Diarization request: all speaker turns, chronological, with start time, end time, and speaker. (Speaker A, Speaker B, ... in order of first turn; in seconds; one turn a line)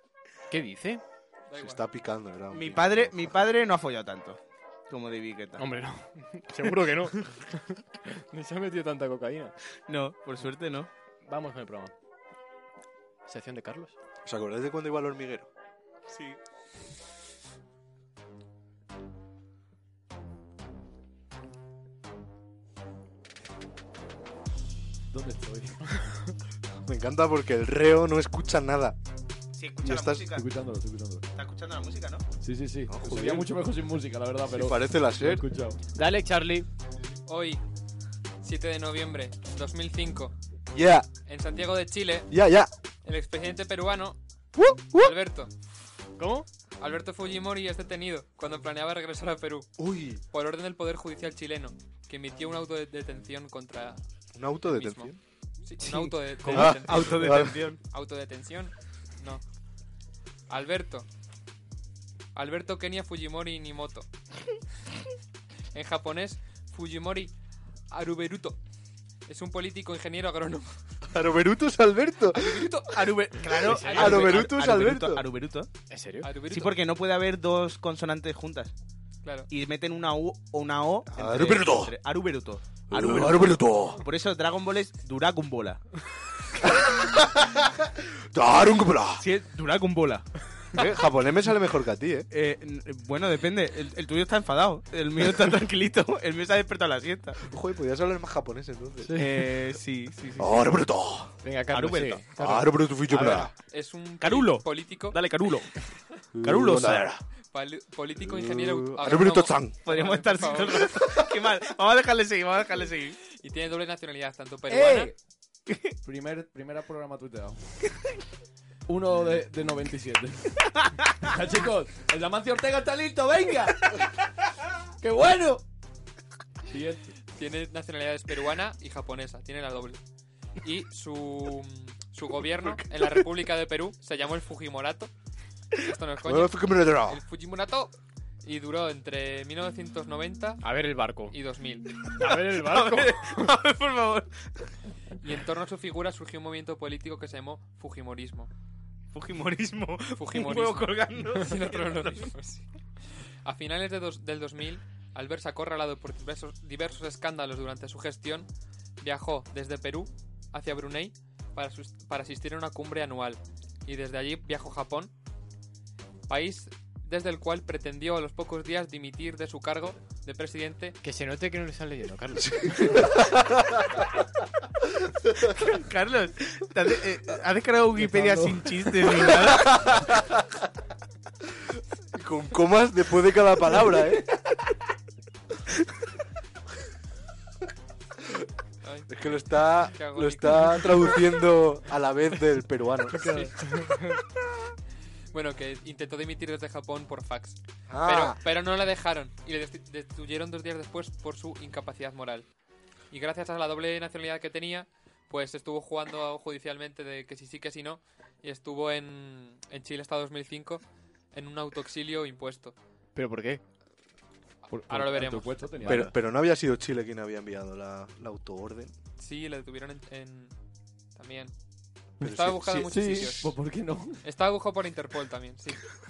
Speaker A: 0.5-1.0
Speaker B: 1.5-1.8
Speaker C: 1.6-3.5
Speaker D: 2.5-5.6
Speaker A: 5.6-9.6
Speaker D: 9.9-10.9
Speaker A: 11.2-11.9
Speaker A: 13.3-13.9
Speaker C: 14.2-15.5
Speaker D: 16.1-16.4
Speaker E: 25.1-25.8
Speaker C: 26.8-29.0
Speaker D: 29.6-30.4
Speaker C: 29.8-30.3
Speaker E: 30.3-31.2
Speaker D: 31.4-32.2
Speaker E: 32.4-35.8
Speaker C: 32.9-33.5
Speaker C: 34.5-35.4
Speaker A: 35.9-36.7
Speaker B: 37.3-37.6
Speaker B: 38.4-40.3
Speaker C: 40.7-41.1
Speaker B: 41.3-42.4
Speaker C: 42.3-42.7
Speaker B: 43.0-44.2
Speaker C: 44.6-45.1
Speaker B: 44.9-45.5
Speaker A: 46.2-46.5
Speaker B: 46.8-49.8
Speaker C: 49.8-50.2
Speaker B: 50.3-54.0
Speaker C: 54.3-55.2
Speaker B: 54.7-55.1
Speaker B: 55.6-59.4
Speaker D: 56.4-57.8
Speaker C: 56.5-57.6
Speaker B: 60.5-61.1
Speaker B: 62.4-64.1
Speaker B: 65.7-67.3
Speaker B: 67.9-68.6
Speaker B: 69.3-70.7
Speaker C: 71.1-72.8
Speaker B: 72.3-73.1
Speaker D: 72.9-75.7
Speaker A: 73.5-74.1
Speaker B: 73.6-74.5
Speaker C: 73.9-75.2
Speaker A: 75.9-76.3
Speaker B: 76.2-76.7
Speaker D: 76.4-78.7
Speaker D: 79.5-85.8
Speaker C: 81.1-81.9
Speaker C: 82.9-84.0
Speaker C: 86.5-89.2
Speaker D: 89.2-90.2
Speaker C: 90.7-92.3
Speaker D: 92.3-97.4
Speaker C: 97.4-99.3
Speaker A: 99.0-99.3
Speaker D: 99.2-100.7
Speaker C: 100.4-101.3
Speaker A: 101.4-103.5
Speaker D: 101.7-102.2
Speaker C: 102.4-103.5
Speaker B: 103.1-105.2
Speaker D: 104.2-105.8
Speaker C: 106.3-107.2
Speaker D: 106.4-107.1
Speaker B: 107.5-111.2
Speaker C: 108.2-109.8
Speaker D: 109.8-113.2
Speaker C: 111.0-111.3
Speaker B: 113.4-115.1
Speaker E: 114.7-115.2
Speaker E: 116.0-117.9
Speaker E: 118.9-124.2
Speaker E: 125.0-125.6
Speaker E: 126.7-127.1
Speaker B: 127.4-130.0
Speaker B: 130.6-135.1
Speaker B: 135.8-140.7
Speaker C: 136.2-137.2
Speaker A: 140.6-141.4
Speaker B: 141.3-142.1
Speaker A: 142.1-143.5
Speaker D: 142.2-144.3
Speaker B: 145.2-148.5
Speaker D: 149.1-152.3
Speaker B: 150.2-152.6
Speaker B: 153.4-158.5
Speaker B: 159.0-165.1
Speaker B: 166.3-171.0
Speaker A: 171.0-173.0
Speaker C: 172.4-174.3
Speaker C: 174.8-175.7
Speaker D: 175.6-179.9
Speaker E: 177.9-179.3
Speaker C: 179.1-180.7
Speaker C: 182.1-184.2
Speaker B: 188.8-191.2
Speaker C: 189.1-193.3
Speaker A: 193.1-194.2
Speaker B: 193.2-194.0
Speaker B: 195.3-202.5
Speaker C: 197.9-198.4
Speaker B: 203.1-212.8
Speaker A: 213.2-213.6
Speaker E: 214.7-216.1
Speaker B: 214.8-215.6
Speaker A: 215.8-216.1
Speaker C: 215.8-218.9
Speaker B: 219.2-220.5
Speaker B: 221.2-221.5
Speaker C: 222.2-223.3
Speaker B: 222.2-223.6
Speaker E: 222.9-224.2
Speaker B: 224.2-225.9